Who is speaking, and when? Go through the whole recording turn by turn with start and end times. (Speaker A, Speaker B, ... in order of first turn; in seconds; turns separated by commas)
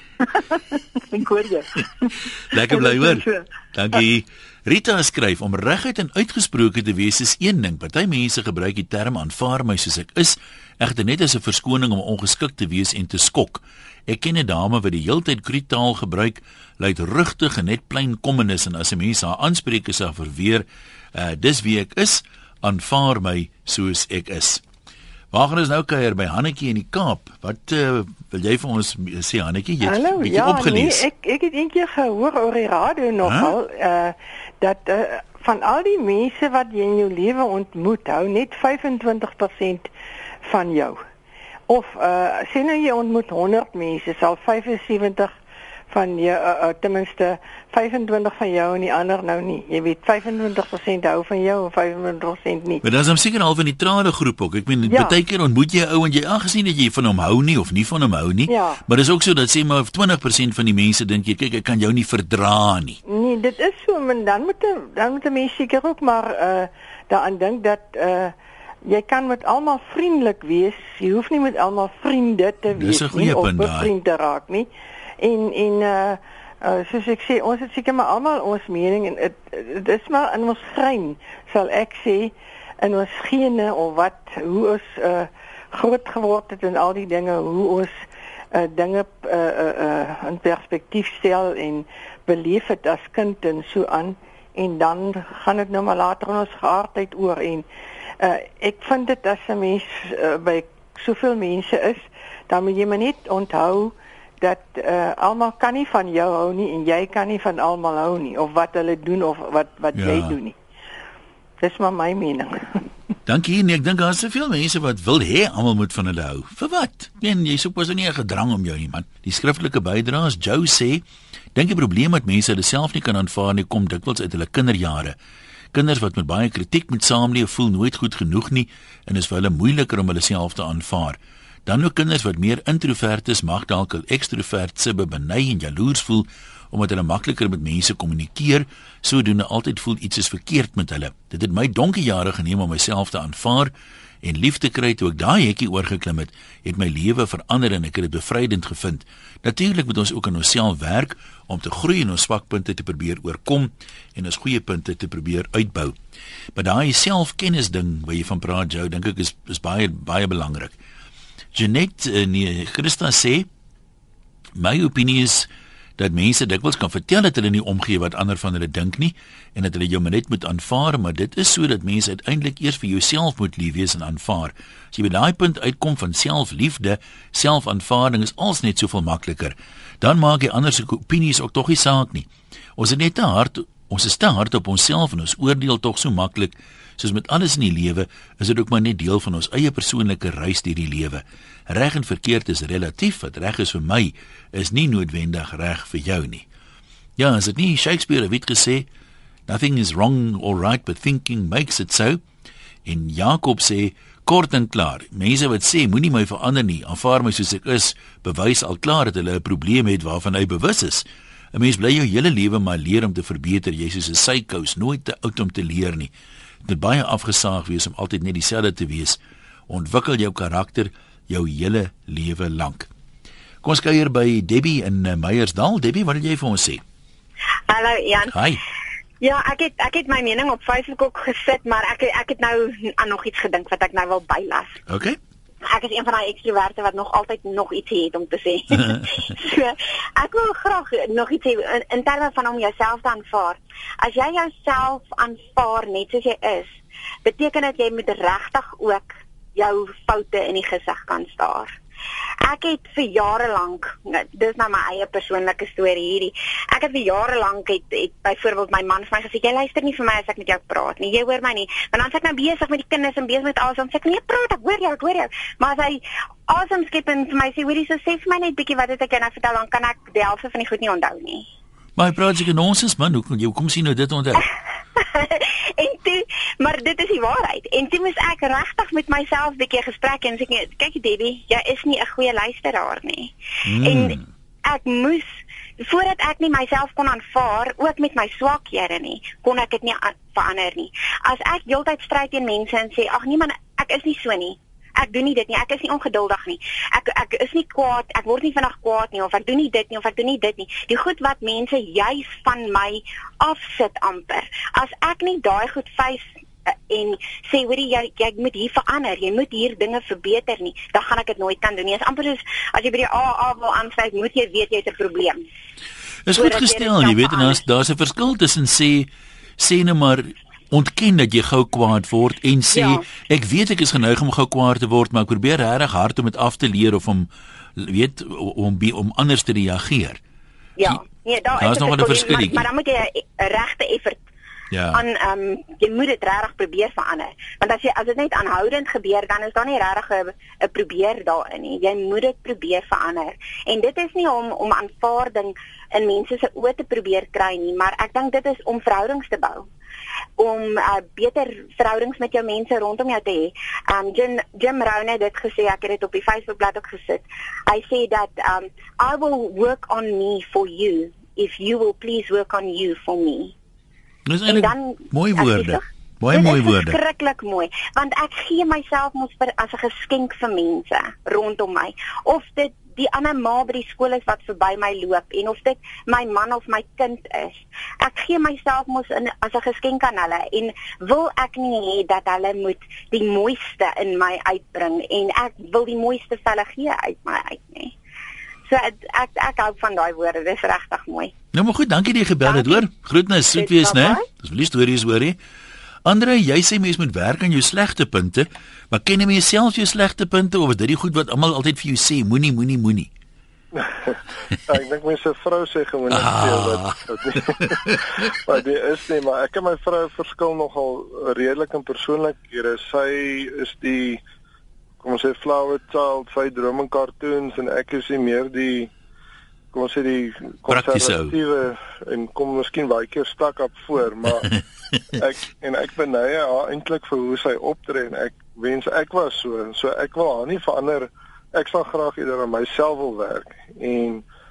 Speaker A: 0.2-4.0, Speaker B: 2.5-24.6, Speaker B: 25.3-31.1, Speaker C: 29.8-39.9, Speaker B: 33.2-33.5, Speaker C: 40.4-41.0, Speaker C: 41.7-45.4, Speaker C: 45.9-52.8, Speaker B: 52.8-63.0, Speaker C: 54.9-55.2, Speaker C: 58.5-58.8, Speaker C: 63.0-74.7, Speaker B: 72.7-73.9, Speaker C: 75.2-88.0, Speaker C: 88.5-97.7, Speaker C: 98.2-110.5, Speaker B: 109.9-110.4, Speaker C: 111.6-112.8, Speaker B: 113.2-121.0, Speaker B: 121.5-125.2, Speaker B: 125.7-143.7, Speaker B: 144.2-155.9, Speaker B: 156.6-160.8, Speaker B: 161.5-163.5, Speaker B: 164.6-196.4, Speaker B: 197.2-198.8, Speaker B: 199.5-202.2, Speaker B: 202.8-216.1, Speaker B: 216.6-222.9, Speaker B: 223.6-226.8, Speaker D: 227.7-228.4, Speaker B: 228.3-228.6, Speaker D: 229.2-234.8, Speaker B: 234.9-235.2, Speaker D: 235.7-251.8, Speaker D: 252.4-271.4, Speaker B: 271.9-274.4, Speaker D: 274.9-315.4, Speaker B: 283.6-284.2, Speaker B: 316.3-330.2, Speaker D: 316.4-317.6, Speaker D: 322.7-323.0, Speaker D: 330.8-334.2, Speaker B: 331.6-332.6, Speaker B: 334.7-335.0, Speaker D: 334.9-349.7, Speaker D: 350.4-363.5, Speaker B: 364.2-367.0, Speaker D: 364.5-387.9, Speaker D: 388.7-391.3, Speaker B: 391.5-395.4, Speaker D: 392.4-392.8, Speaker D: 393.5-394.2, Speaker B: 396.0-403.1, Speaker E: 403.8-404.1, Speaker E: 404.7-414.2, Speaker B: 406.1-407.9, Speaker E: 415.0-418.9, Speaker E: 419.7-424.5, Speaker B: 420.7-421.4, Speaker E: 425.2-434.2